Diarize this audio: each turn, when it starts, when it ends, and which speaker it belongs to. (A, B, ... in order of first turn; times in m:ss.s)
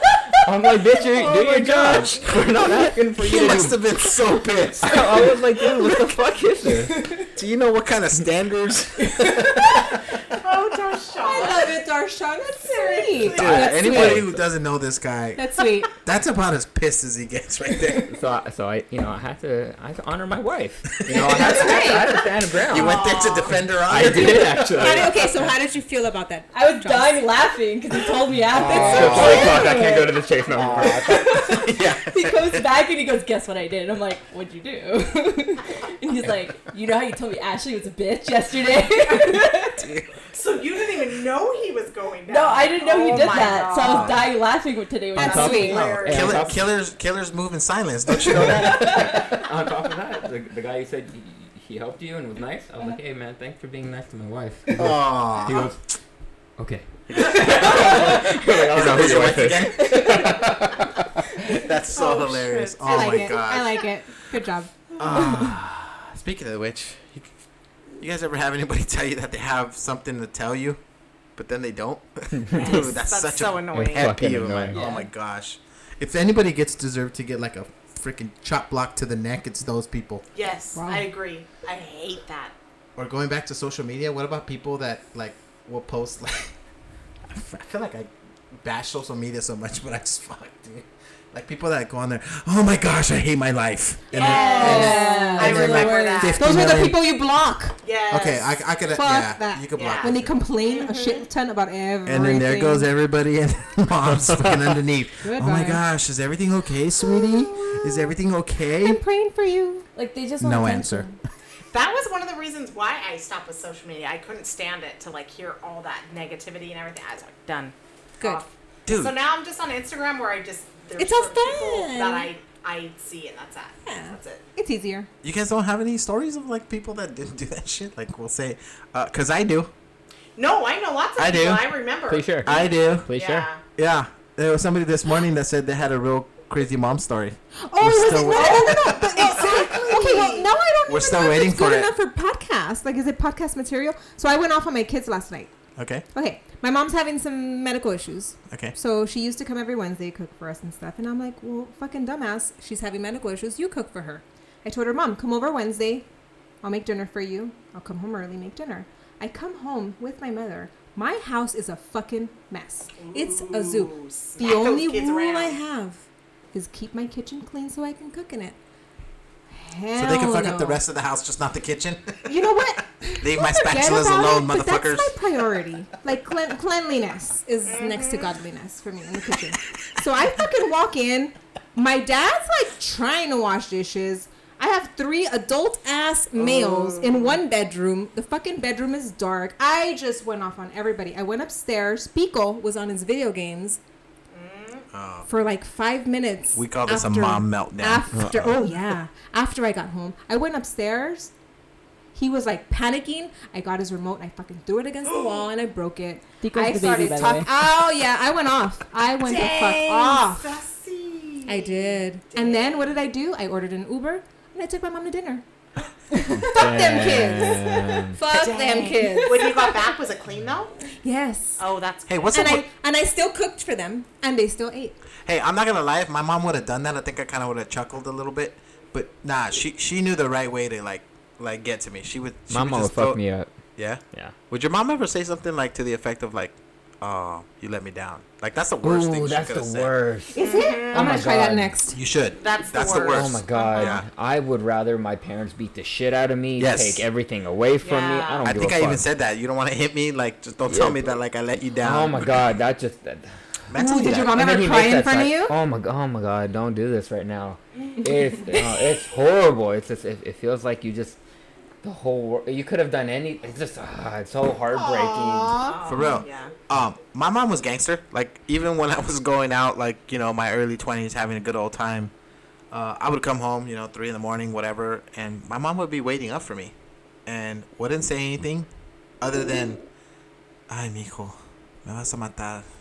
0:00.4-0:03.8 A
0:03.2-0:05.3 B
0:04.8-0:07.0 A
0:07.3-0:10.0 B
0:09.2-0:09.8 C
0:10.4-0:11.8 D
0:11.2-0:14.2 E
0:12.6-0:14.1 D
0:13.3-0:18.1 B
0:13.9-0:14.2 A
0:15.4-0:15.9 E
0:18.0-0:25.4 A
0:21.0-0:21.7 B
0:21.1-0:22.3 E
0:22.6-0:25.0 B
0:22.7-0:23.6 D
0:24.3-0:27.2 E
0:26.5-0:39.8 C
0:28.5-0:31.6 A
0:28.5-0:29.8 B
0:30.5-0:32.7 B
0:39.8-0:40.1 B
0:40.3-0:44.3 D
0:42.3-0:45.8 C
0:43.7-0:44.3 B
0:45.2-0:46.6 A
0:45.2-0:45.8 E
0:45.2-0:46.5 D
0:45.6-0:49.4 B
0:48.2-0:55.8 A
0:54.8-0:55.7 B
0:56.6-1:01.1 A
0:57.1-1:00.5 B
1:01.5-1:03.8 B
1:01.9-1:03.5 D
1:02.8-1:04.8 E
1:05.0-1:07.3 B
1:08.0-1:10.8 B
1:11.4-1:20.2 B
1:12.3-1:12.7 A
1:12.5-1:14.2 D
1:13.7-1:14.9 A
1:14.7-1:15.0 C
1:20.3-1:22.5 D
1:20.8-1:21.1 E
1:23.0-1:26.5 B
1:27.3-1:37.0 B
1:34.1-1:36.4 D
1:34.1-1:36.3 C
1:34.1-1:37.8 E
1:37.8-1:38.6 D
1:38.1-1:40.4 B
1:38.9-1:42.9 E
1:39.7-1:40.1 D
1:40.6-1:41.2 D
1:42.0-1:49.0 B
1:45.3-1:45.8 E
1:47.0-1:48.1 E
1:48.8-1:49.8 E
1:49.9-1:51.1 C
1:50.4-1:51.1 B
1:51.7-2:04.4 D
1:58.8-1:59.2 B
2:01.0-2:02.3 E
2:03.8-2:05.1 E
2:05.2-2:09.7 B
2:10.4-2:13.6 D
2:11.2-2:11.7 B
2:12.1-2:13.5 A
2:12.4-2:13.1 B
2:13.8-2:19.6 B
2:17.6-2:25.5 E
2:18.1-2:20.5 D
2:20.9-2:21.9 B
2:25.8-2:26.0 B
2:26.1-2:36.0 E
2:28.5-2:28.8 B
2:36.6-2:46.0 E
2:43.0-2:45.6 D
2:46.5-2:48.6 E
2:49.5-2:50.8 E
2:49.9-2:52.4 B
2:52.2-3:13.8 E
2:53.2-2:55.2 B
2:57.6-2:58.3 D
3:06.4-3:07.4 D
3:14.3-3:14.9 D
3:14.9-3:15.3 B
3:15.3-3:21.3 E
3:16.5-3:18.7 B
3:22.1-3:30.6 E
3:25.0-3:25.4 D
3:26.4-3:27.5 C
3:29.2-3:32.9 D
3:31.4-3:35.4 E
3:36.3-3:39.9 E
3:36.3-3:38.2 A
3:38.3-3:40.7 D
3:41.0-3:41.6 E
3:41.6-3:42.3 D
3:42.1-3:42.6 B
3:42.3-3:45.0 E
3:45.2-3:53.2 B
3:52.5-3:53.5 A
3:53.8-3:59.9 B
3:58.8-4:01.8 A
4:00.3-4:02.0 E
4:00.4-4:01.0 D
4:01.9-4:04.0 B
4:02.4-4:04.0 D
4:02.9-4:09.0 A
4:06.6-4:07.0 B
4:07.8-4:08.5 D
4:08.4-4:12.5 B
4:10.7-4:11.0 A
4:11.8-4:13.3 A
4:13.7-4:14.4 B
4:13.7-4:15.5 E
4:14.2-4:21.2 A
4:21.8-4:25.7 A
4:24.8-4:26.5 D
4:25.8-4:32.1 B
4:32.7-4:36.7 B
4:37.2-4:38.7 B
4:39.2-4:39.8 B
4:40.7-4:42.6 B